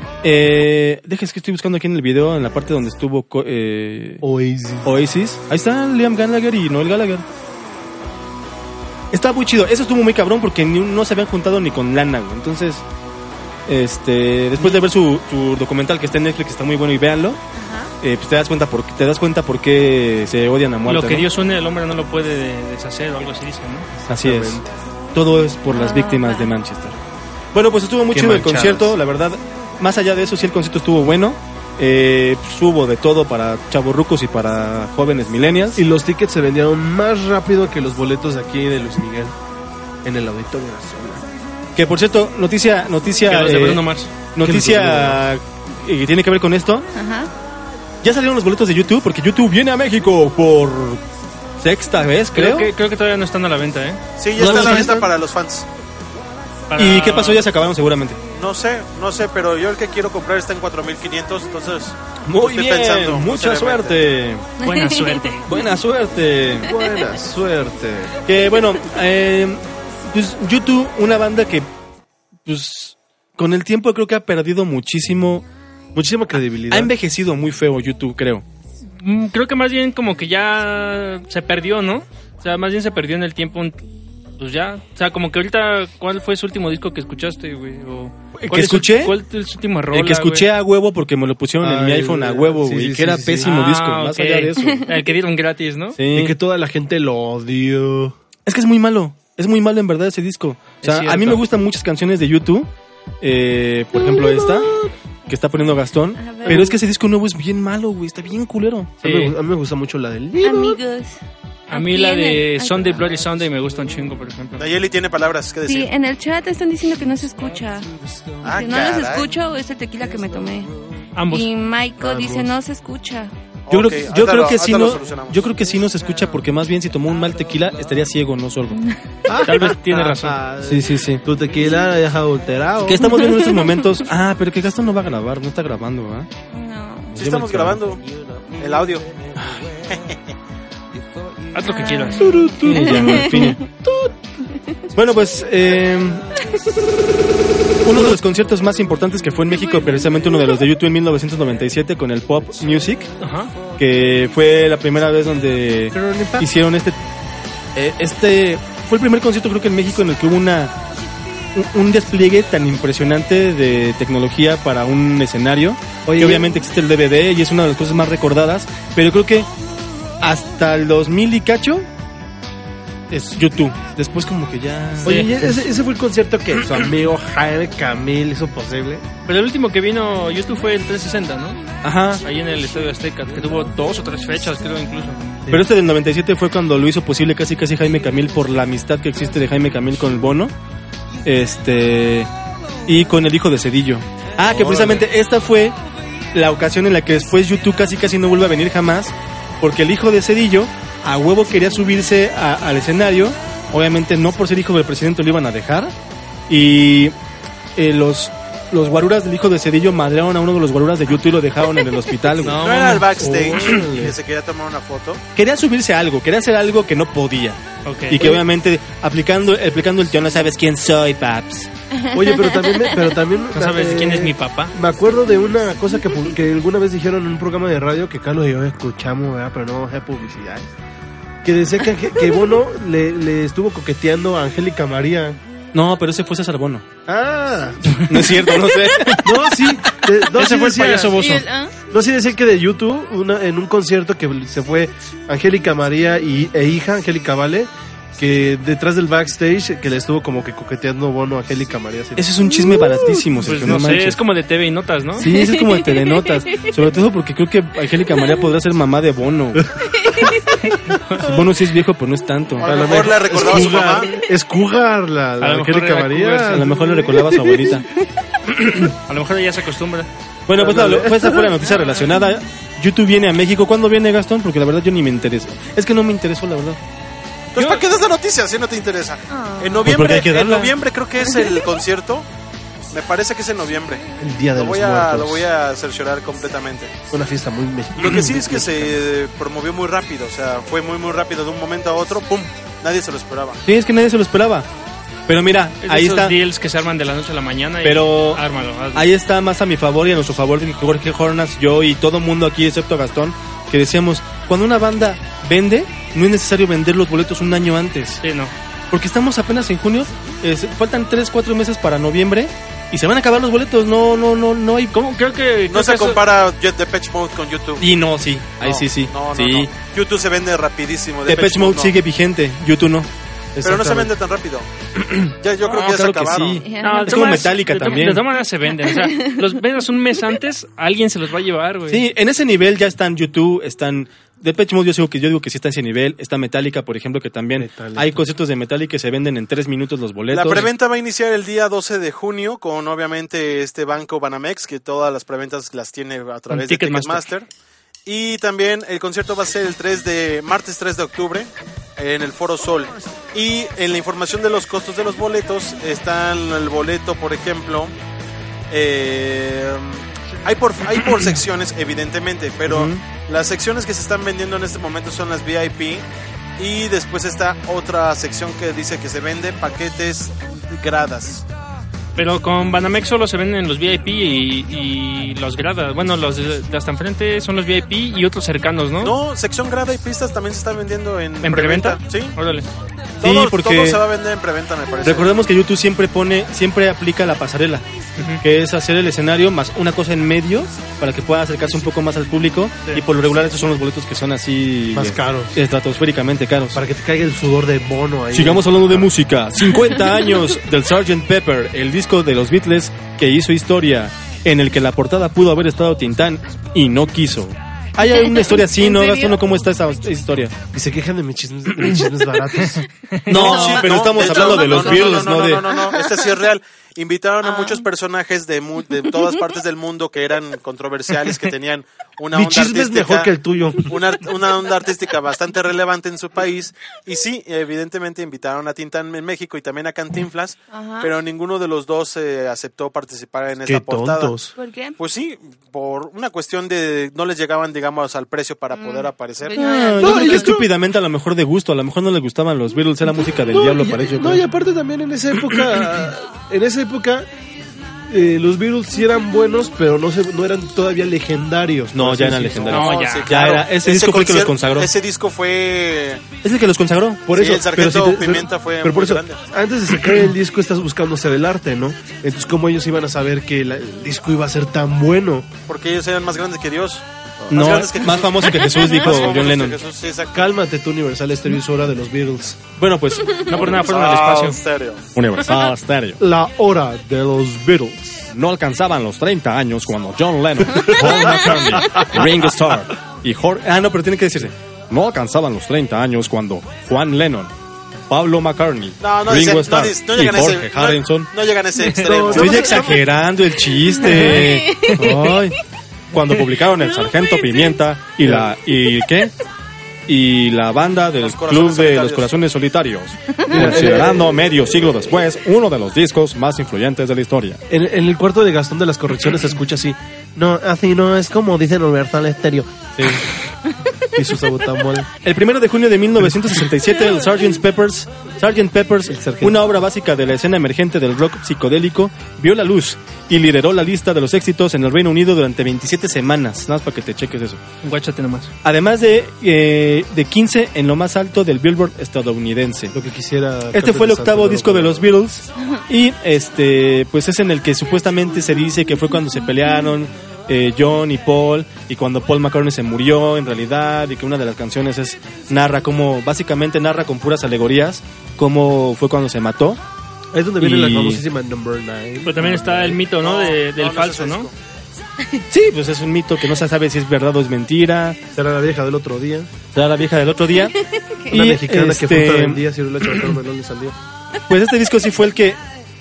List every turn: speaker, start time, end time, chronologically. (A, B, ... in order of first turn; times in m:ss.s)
0:00.2-0:04.2 A
0:04.2-0:04.9 B
0:04.8-0:07.2 A
0:09.1-0:12.8 A
0:13.7-0:17.4 A
0:17.6-0:17.9 C
0:18.0-0:21.3 A
0:20.9-0:23.9 D
0:24.0-0:24.7 B
0:24.1-0:24.6 A
0:25.1-0:27.0 A
0:25.7-0:26.5 C
0:27.5-0:35.8 A
0:28.1-0:28.9 D
0:35.8-0:39.3 B
0:40.0-0:41.2 B
0:41.8-0:46.9 A
0:43.3-0:44.1 D
0:44.4-0:45.2 B
0:47.0-0:47.3 C
0:48.0-0:51.0 A
0:51.6-0:52.7 A
0:52.3-0:54.0 D
0:54.2-0:55.7 E
0:54.4-0:55.1 B
0:54.4-0:55.1 A
0:56.7-0:57.5 D
0:56.8-0:58.2 A
0:58.4-1:04.0 E
1:02.3-1:04.4 A
1:04.6-1:05.4 C
1:04.6-1:05.4 D
1:05.4-1:06.7 A
1:06.6-1:08.2 B
1:08.3-1:11.7 A
1:12.4-1:15.4 A
1:15.9-1:16.9 B
1:16.7-1:18.4 A
1:19.0-1:23.8 D
1:24.4-1:30.5 D
1:28.4-1:29.2 A
1:29.9-1:34.9 A
1:31.6-1:33.5 B
1:33.4-1:36.0 D
1:36.0-1:36.4 A
1:36.1-1:38.2 B
1:38.5-1:42.7 A
1:40.8-1:41.4 D
1:43.2-1:44.7 A
1:45.3-1:48.9 A
1:46.2-1:46.8 C
1:49.0-1:50.8 B
1:49.0-1:49.4 D
1:50.4-1:51.2 C
1:51.7-1:54.7 D
1:51.7-1:53.1 C
1:54.6-1:55.9 E
1:55.6-1:57.9 C
1:58.4-1:59.3 E
1:58.4-2:00.7 C
2:01.2-2:01.5 D
2:01.3-2:03.3 C
2:02.0-2:02.5 B
2:03.7-2:05.4 E
2:03.7-2:08.8 A
2:09.3-2:13.2 B
2:09.4-2:10.4 D
2:10.6-2:11.2 A
2:12.8-2:16.3 A
2:13.1-2:13.9 C
2:16.5-2:17.2 C
2:17.1-2:17.8 A
2:17.2-2:18.0 E
2:18.6-2:19.1 E
2:19.4-2:19.7 A
2:21.5-2:23.0 D
2:21.8-2:23.6 C
2:22.2-2:22.9 B
2:22.4-2:23.6 A
2:24.9-2:26.3 A
2:27.8-2:33.1 A
2:33.2-2:33.5 D
2:33.8-2:37.0 A
2:35.9-2:36.5 B
2:37.8-2:40.8 A
2:41.5-2:49.5 A
2:46.1-2:46.5 B
2:50.2-2:51.9 A
2:53.1-2:55.7 A
2:55.0-2:59.0 B
2:59.3-3:01.6 D
3:01.8-3:02.2 A
3:02.2-3:05.3 D
3:05.5-3:10.5 A
3:11.2-3:12.3 A
3:12.9-3:15.8 A
3:14.5-3:15.0 B
3:16.3-3:25.9 A
3:26.5-3:27.2 A
3:27.8-3:32.6 A
3:32.4-3:33.1 D
3:32.5-3:35.2 E
3:33.2-3:34.2 B
3:35.4-3:41.7 A
3:37.8-3:38.3 D
3:42.0-3:43.1 C
3:42.1-3:50.7 B
3:43.5-3:44.7 D
3:51.4-3:55.4 B
3:55.7-3:56.9 A
3:57.1-3:58.0 B
3:58.0-3:59.7 A
3:59.2-4:01.3 B
4:00.4-4:01.3 D
4:00.4-4:01.4 A
4:01.1-4:01.7 C
4:01.9-4:12.8 B
4:12.2-4:14.2 A
4:13.4-4:15.3 D
4:15.2-4:19.7 A
4:15.3-4:16.8 C
4:20.0-4:20.3 C
4:20.9-4:21.3 D
4:21.2-4:22.8 A
4:22.6-4:24.1 E
4:22.6-4:27.8 B
4:25.4-4:26.7 D
4:26.5-4:27.9 A
4:28.7-4:30.1 D
4:30.5-4:36.8 A
4:30.6-4:31.5 B
4:37.5-4:42.3 E
4:37.6-4:37.8 D
4:39.3-4:40.0 C
4:39.8-4:40.7 A
4:41.2-4:41.6 C
4:42.9-4:47.0 E
4:44.2-4:45.5 B
4:47.1-4:49.0 B
4:48.0-4:53.6 E
4:53.6-4:54.7 A
4:55.3-4:56.4 A
4:55.8-4:59.1 D
4:57.8-4:58.4 A
4:58.9-5:08.2 A
5:08.2-5:08.5 D
5:08.9-5:15.0 A
5:14.9-5:16.2 D
5:15.7-5:17.8 E
5:17.8-5:19.7 A
5:18.6-5:22.0 E
5:21.3-5:23.1 A
5:23.6-5:24.1 B
5:23.6-5:24.7 E
5:25.0-5:28.2 A
5:25.3-5:26.6 E
5:26.6-5:27.6 C
5:26.8-5:32.1 D
5:28.8-5:29.5 C
5:31.9-5:40.7 A
5:37.6-5:38.2 B
5:40.3-5:47.5 E
5:46.5-5:47.3 D
5:48.1-5:57.9 E
5:58.7-6:06.0 E
6:02.7-6:03.0 A
6:06.6-6:11.4 E
6:12.2-6:19.2 D
6:19.0-6:22.4 E
6:21.4-6:22.7 D
6:23.2-6:25.3 E
6:23.2-6:24.0 A
6:25.0-6:27.8 A
6:28.2-6:28.4 D
6:28.4-6:36.8 A
6:34.9-6:35.6 B
6:36.8-6:39.1 B
6:38.3-6:50.6 A
6:48.1-6:49.4 C
6:50.7-6:52.8 B
6:53.1-6:53.4 D
6:53.3-6:55.7 A
6:53.3-7:03.3 E
6:53.4-6:56.4 C
6:57.4-6:57.8 C
6:59.1-6:59.4 C
7:02.3-7:04.0 B
7:03.9-7:14.4 E
7:10.7-7:11.1 C
7:13.6-7:14.5 B
7:14.6-7:15.0 C
7:15.0-7:19.6 E
7:18.7-7:20.6 C
7:19.5-7:24.4 A
7:20.0-7:20.7 B
7:23.5-7:27.3 B
7:28.1-7:32.9 B
7:31.9-7:34.9 A
7:32.7-7:33.3 D
7:32.8-7:36.2 E
7:36.4-7:37.3 A
7:37.3-7:45.5 B
7:37.3-7:39.4 E
7:45.7-7:50.5 E
7:47.4-7:47.9 B
7:47.5-7:49.8 A
7:48.6-7:49.2 C
7:50.3-7:52.6 B
7:52.8-7:53.5 A
7:53.5-7:54.6 D
7:53.5-7:55.0 E
7:55.2-7:56.2 A
7:56.2-7:58.3 B
7:58.3-8:07.5 A
8:00.8-8:02.3 B
8:08.1-8:11.3 A
8:09.0-8:12.8 E
8:11.8-8:12.4 D
8:12.0-8:13.0 B
8:12.3-8:15.6 A
8:14.0-8:15.5 C
8:14.1-8:15.1 D
8:16.1-8:19.3 A
8:16.9-8:17.6 C
8:18.2-8:18.5 B
8:20.1-8:27.6 A
8:21.2-8:22.3 E
8:23.5-8:24.3 B
8:27.7-8:33.2 B
8:33.0-8:33.2 A
8:34.1-8:35.1 B
8:35.2-8:47.6 A
8:39.1-8:39.7 B
8:47.8-8:48.5 D
8:48.6-8:53.0 A
8:52.9-8:55.1 B
8:53.7-9:09.8 A
9:10.3-9:13.0 B
9:10.6-9:11.2 A
9:12.2-9:14.5 D
9:13.2-9:14.5 E
9:15.5-9:18.2 A
9:18.3-9:19.5 B
9:19.7-9:20.8 A
9:20.9-9:21.3 C
9:21.3-9:22.6 A
9:21.3-9:24.0 B
9:24.5-9:25.6 A